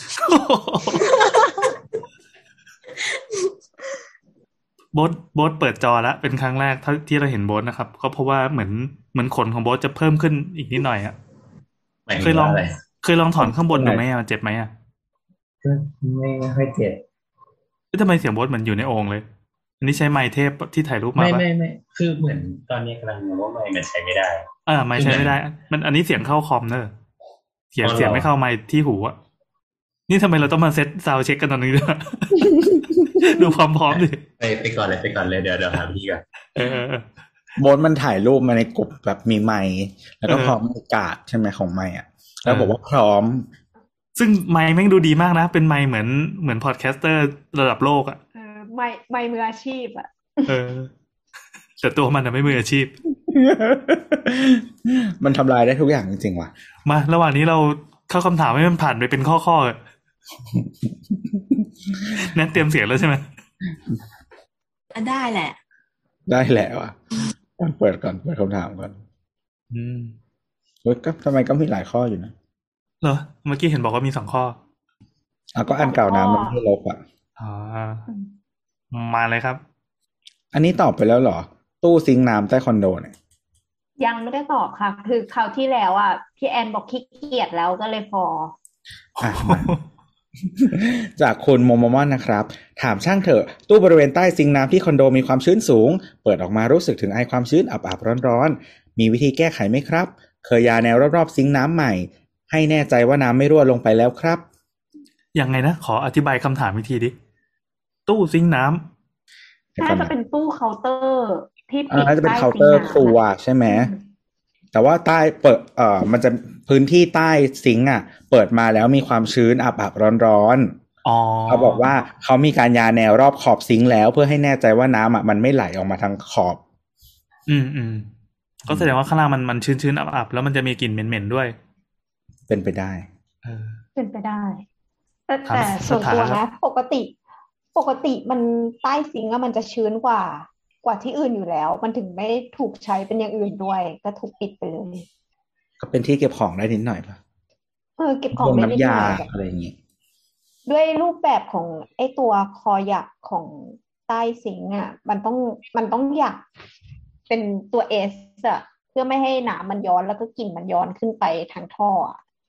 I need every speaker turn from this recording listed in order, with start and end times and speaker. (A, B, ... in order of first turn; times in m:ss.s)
0:00.2-0:01.1 A
0:00.8-0:01.8 B
0:03.0-0:03.5 B
0:04.9-0:11.2 A
0:12.1-0:12.8 C
0:12.1-0:14.7 A
0:13.4-0:14.0 D
0:15.6-0:17.0 C
0:17.9-0:19.2 A
0:19.8-0:21.4 A
0:21.2-0:25.3 C
0:24.7-0:26.9 A
0:27.7-0:29.2 A
0:27.8-0:28.3 C
0:30.1-0:34.2 A
0:33.9-0:36.2 C
0:36.5-0:37.0 A
0:37.6-0:43.5 D
0:40.3-0:40.6 A
0:42.4-0:42.7 A
0:44.2-0:48.2 A
0:48.3-0:50.5 E
0:50.5-0:50.9 A
0:51.8-0:52.9 A
0:53.2-0:56.5 D
0:56.8-0:59.8 A
1:00.5-1:01.6 D
1:02.2-1:03.2 A
1:04.9-1:05.6 B
1:06.3-1:07.0 D
1:07.6-1:09.0 D
1:09.7-1:10.1 A
1:10.8-1:12.3 D
1:13.0-1:14.6 A
1:15.5-1:17.0 D
1:15.6-1:16.6 E
1:17.4-1:18.0 A
1:18.9-1:19.6 A
1:20.5-1:23.1 D
1:24.0-1:28.5 E
1:29.2-1:29.7 D
1:29.2-1:29.8 A
1:30.6-1:44.4 D
1:45.3-1:47.1 A
1:48.1-1:48.8 A
1:49.8-1:54.0 E
1:49.8-1:50.1 D
1:51.9-1:53.9 D
1:54.7-2:00.8 D
2:01.0-2:01.8 A
2:01.5-2:06.6 D
2:07.5-2:08.1 A
2:08.6-2:11.5 A
2:12.5-2:13.0 D
2:13.4-2:13.8 A
2:14.0-2:14.6 E
2:15.3-2:17.1 E
2:15.5-2:16.4 A
2:17.7-2:25.1 E
2:25.8-2:27.2 D
2:28.0-2:29.3 E
2:28.3-2:29.7 D
2:30.7-2:36.4 E
2:37.3-2:42.2 E